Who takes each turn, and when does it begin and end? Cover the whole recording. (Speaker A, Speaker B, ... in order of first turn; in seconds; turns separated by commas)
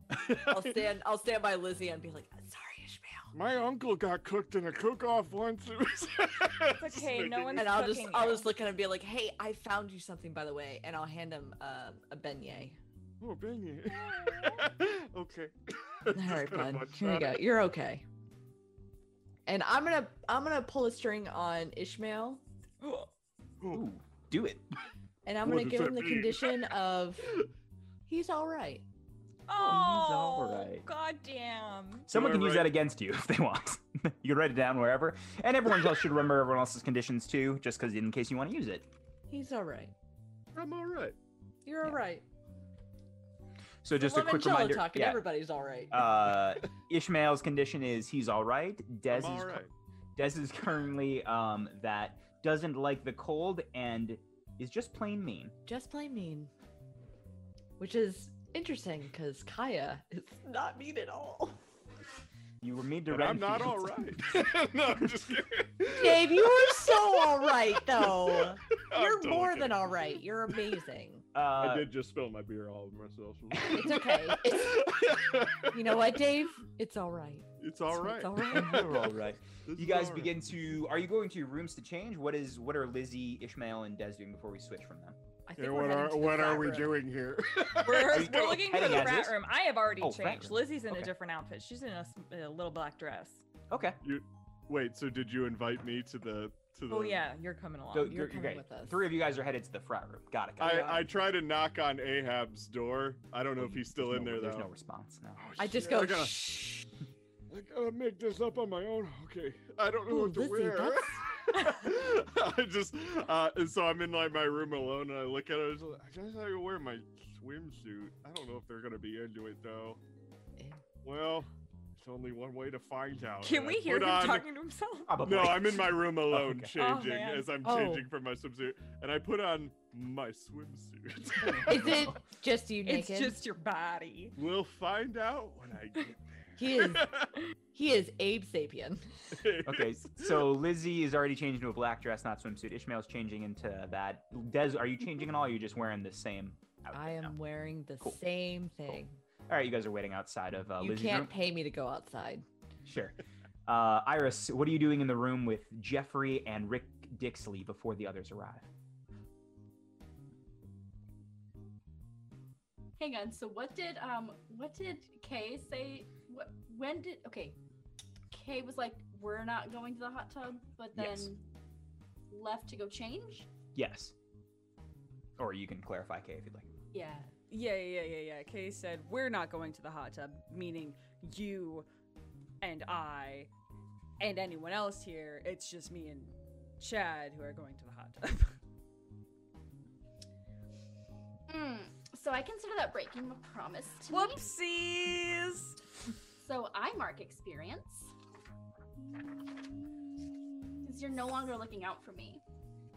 Speaker A: 0.2-0.6, Speaker B: 0.3-3.3, Speaker A: 3.3-7.8, Speaker C: 6.7-8.5, Speaker B: 7.5-12.8, Speaker A: 13.2-17.4, Speaker C: 14.0-14.6, Speaker B: 16.1-18.0, Speaker B: 19.4-22.4, Speaker C: 22.8-23.1, Speaker D: 23.7-24.6, Speaker B: 25.2-27.3, Speaker A: 25.4-26.6, Speaker B: 28.1-28.8, Speaker C: 29.5-32.1, Speaker D: 29.6-30.9, Speaker D: 32.1-38.9, Speaker A: 32.1-32.8, Speaker B: 39.3-39.9, Speaker A: 40.5-41.1, Speaker B: 41.6-42.2, Speaker D: 43.8-45.3, Speaker B: 43.9-46.3, Speaker D: 45.9-49.6, Speaker A: 49.1-49.7, Speaker D: 50.1-55.5, Speaker B: 55.6-56.5, Speaker B: 57.8-61.6, Speaker D: 62.6-64.4, Speaker A: 63.1-70.0, Speaker B: 65.9-71.2, Speaker D: 71.3-71.9, Speaker A: 71.6-76.0, Speaker B: 73.6-75.1, Speaker B: 75.6-79.1, Speaker A: 77.6-80.4, Speaker D: 78.5-85.2, Speaker B: 85.5-87.0, Speaker A: 85.6-89.0, Speaker C: 87.8-93.4, Speaker D: 87.9-89.4, Speaker D: 90.0-91.1, Speaker D: 93.7-94.0, Speaker A: 94.0-97.2, Speaker C: 96.9-98.2, Speaker D: 97.9-101.1, Speaker B: 98.0-99.1, Speaker A: 100.6-104.7, Speaker D: 103.6-105.5, Speaker A: 105.4-106.8, Speaker B: 105.6-106.8, Speaker A: 107.5-120.0, Speaker B: 110.1-111.2, Speaker A: 121.0-124.5, Speaker C: 123.4-125.1, Speaker D: 125.1-126.7, Speaker A: 125.2-132.1, Speaker C: 126.8-127.5, Speaker B: 127.6-128.1, Speaker D: 131.4-132.2, Speaker B: 131.6-133.4, Speaker C: 132.8-134.3, Speaker A: 134.3-137.3, Speaker B: 136.6-137.1, Speaker B: 137.7-139.4, Speaker A: 139.3-140.5, Speaker D: 139.6-147.3, Speaker B: 146.9-149.2, Speaker D: 149.5-151.3, Speaker B: 150.8-152.4, Speaker D: 152.8-158.7, Speaker E: 163.0-167.6, Speaker E: 168.3-171.4, Speaker D: 170.9-171.3, Speaker E: 172.3-173.5, Speaker D: 173.7-174.1, Speaker D: 175.4-176.7, Speaker E: 176.9-177.3, Speaker F: 177.5-181.9, Speaker F: 182.6-183.5, Speaker F: 184.2-188.6, Speaker E: 191.5-194.5, Speaker F: 194.1-195.8, Speaker E: 196.4-198.1, Speaker E: 199.2-199.7, Speaker E: 200.8-202.4